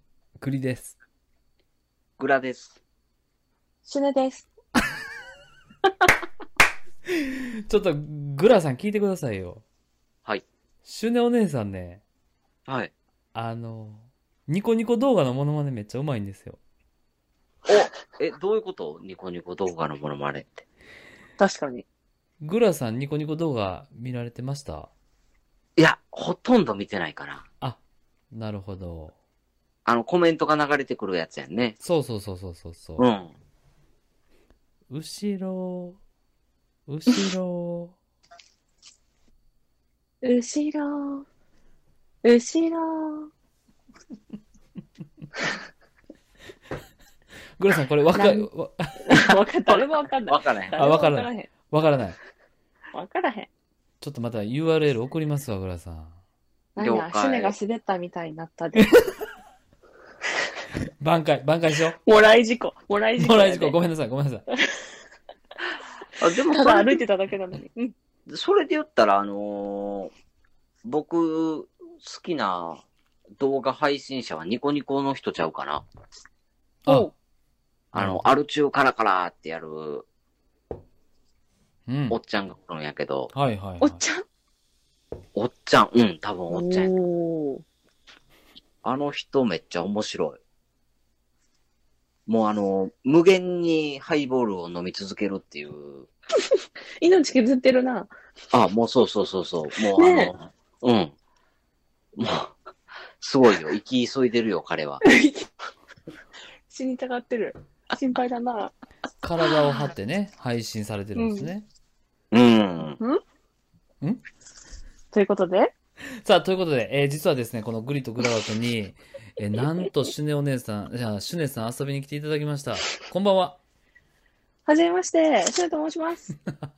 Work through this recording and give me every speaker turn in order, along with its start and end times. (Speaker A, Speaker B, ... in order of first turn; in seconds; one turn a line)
Speaker A: 0.4-1.0
Speaker B: 2.2-2.8
Speaker C: 3.8-4.5
Speaker A: 7.2-9.6
Speaker A: 10.8-12.0
Speaker B: 12.7-12.9
Speaker A: 13.3-16.6
Speaker B: 17.7-20.6
Speaker C: 21.4-21.9
Speaker A: 22.4-24.9
Speaker B: 25.8-27.4
Speaker A: 28.3-29.1
Speaker B: 29.9-31.8
Speaker A: 31.8-33.1
Speaker B: 33.0-33.3
Speaker A: 34.9-36.0
Speaker A: 36.9-38.0
Speaker C: 40.2-41.2
Speaker C: 42.2-43.3
Speaker A: 47.6-49.3
Speaker C: 48.1-48.5
Speaker C: 49.0-51.5
Speaker B: 49.7-50.9
Speaker A: 50.8-52.2
Speaker C: 52.9-53.5
Speaker A: 54.0-56.2
Speaker C: 56.8-58.9
Speaker B: 56.8-57.5
Speaker A: 61.0-62.0
Speaker C: 62.0-63.8
Speaker A: 63.2-64.5
Speaker B: 66.2-67.0
Speaker C: 66.5-67.9
Speaker B: 68.3-70.1
Speaker B: 70.8-72.8
Speaker B: 73.4-75.8
Speaker C: 76.8-77.1
Speaker B: 77.9-80.0
Speaker A: 77.9-78.3
Speaker A: 81.9-82.2
Speaker B: 82.1-83.3
Speaker A: 83.3-84.0
Speaker C: 83.8-84.2
Speaker B: 85.3-86.9
Speaker C: 86.5-87.6
Speaker B: 88.8-90.4
Speaker B: 92.2-96.1
Speaker C: 97.0-98.1
Speaker B: 98.5-101.1
Speaker C: 100.0-100.3
Speaker B: 102.2-102.5
Speaker B: 103.2-105.0
Speaker C: 105.0-105.5
Speaker C: 106.7-108.7
Speaker A: 109.2-111.7
Speaker C: 111.2-111.5
Speaker B: 112.3-113.0
Speaker C: 115.1-115.7
Speaker A: 116.2-123.6
Speaker C: 124.7-126.3